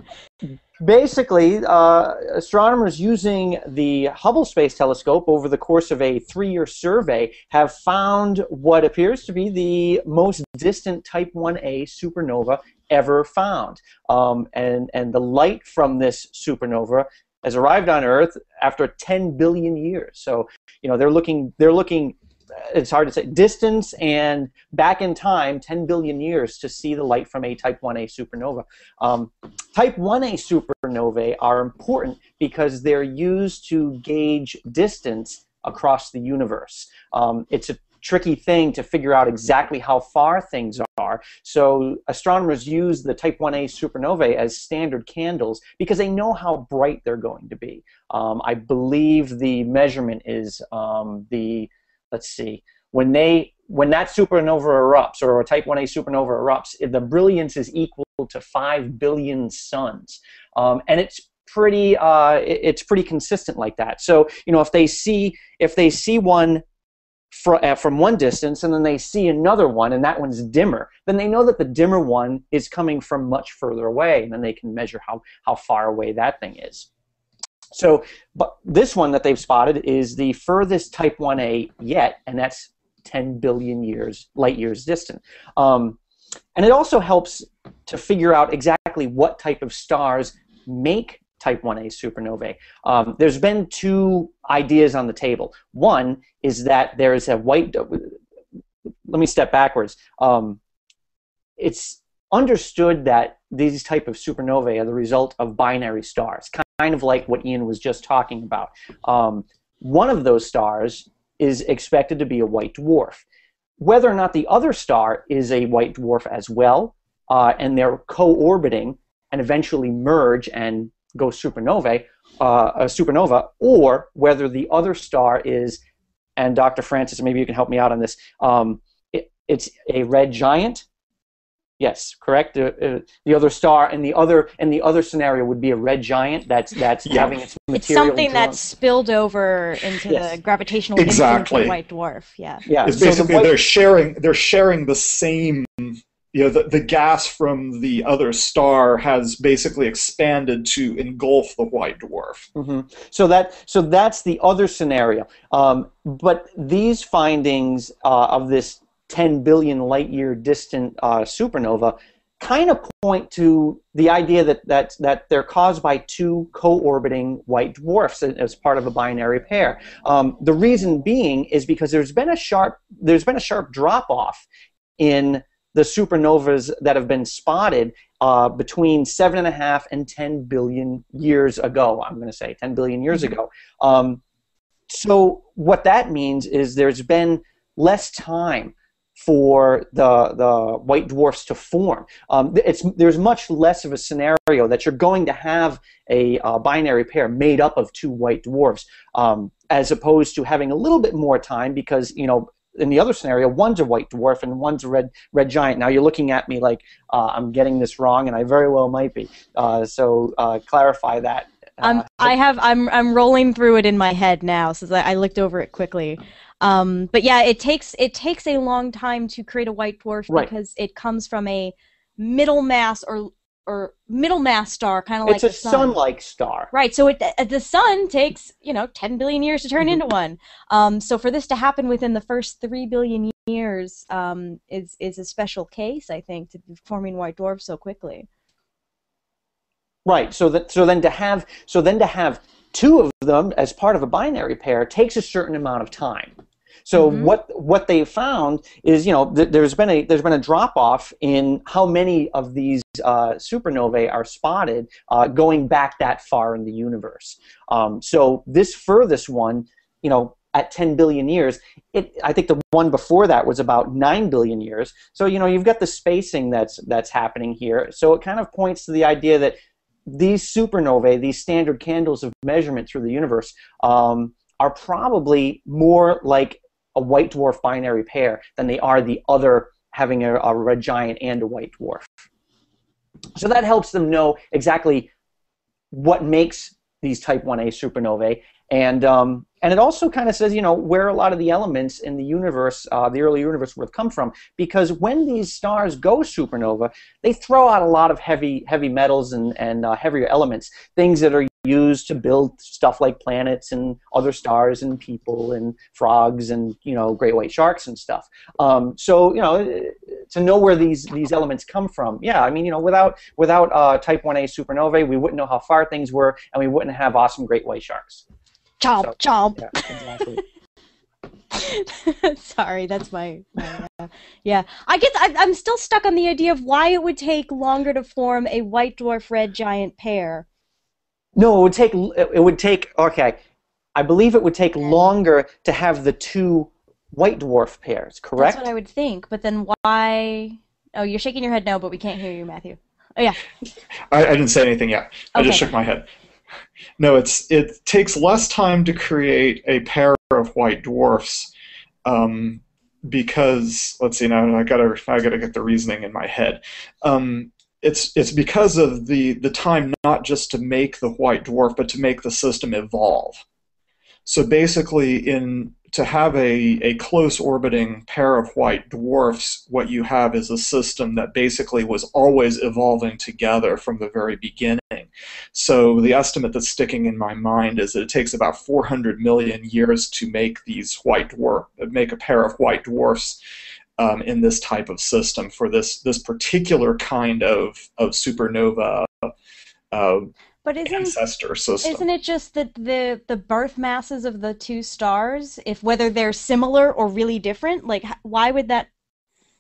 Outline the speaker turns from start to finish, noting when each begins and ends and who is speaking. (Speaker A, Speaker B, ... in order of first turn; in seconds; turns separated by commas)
Speaker A: 0.5-66.6, Speaker A: 67.3-76.9, Speaker A: 77.7-86.0, Speaker A: 86.5-98.2, Speaker A: 99.1-100.6, Speaker A: 101.6-113.2, Speaker A: 113.8-125.8, Speaker A: 126.4-130.8, Speaker A: 131.8-138.6, Speaker B: 137.0-137.4, Speaker C: 137.7-142.6, Speaker A: 140.1-140.3, Speaker B: 141.0-141.8, Speaker A: 142.7-143.6, Speaker B: 142.8-152.5, Speaker A: 152.6-174.4, Speaker A: 175.0-184.2, Speaker A: 184.9-212.3, Speaker C: 211.8-226.0, Speaker A: 225.3-226.7, Speaker C: 226.7-238.3, Speaker A: 240.1-246.3, Speaker A: 246.9-282.2, Speaker C: 246.9-247.3, Speaker A: 283.4-285.1, Speaker A: 285.9-318.2, Speaker C: 318.8-320.4, Speaker A: 319.0-320.4, Speaker C: 321.5-330.5, Speaker A: 331.4-333.4, Speaker A: 333.9-338.6, Speaker C: 338.4-343.4, Speaker B: 344.1-346.1, Speaker C: 345.4-345.7, Speaker B: 347.0-351.5, Speaker B: 352.1-363.4, Speaker B: 364.3-383.4, Speaker B: 384.0-389.3, Speaker B: 389.9-390.3, Speaker C: 390.6-391.2, Speaker B: 390.9-392.1, Speaker C: 391.8-398.9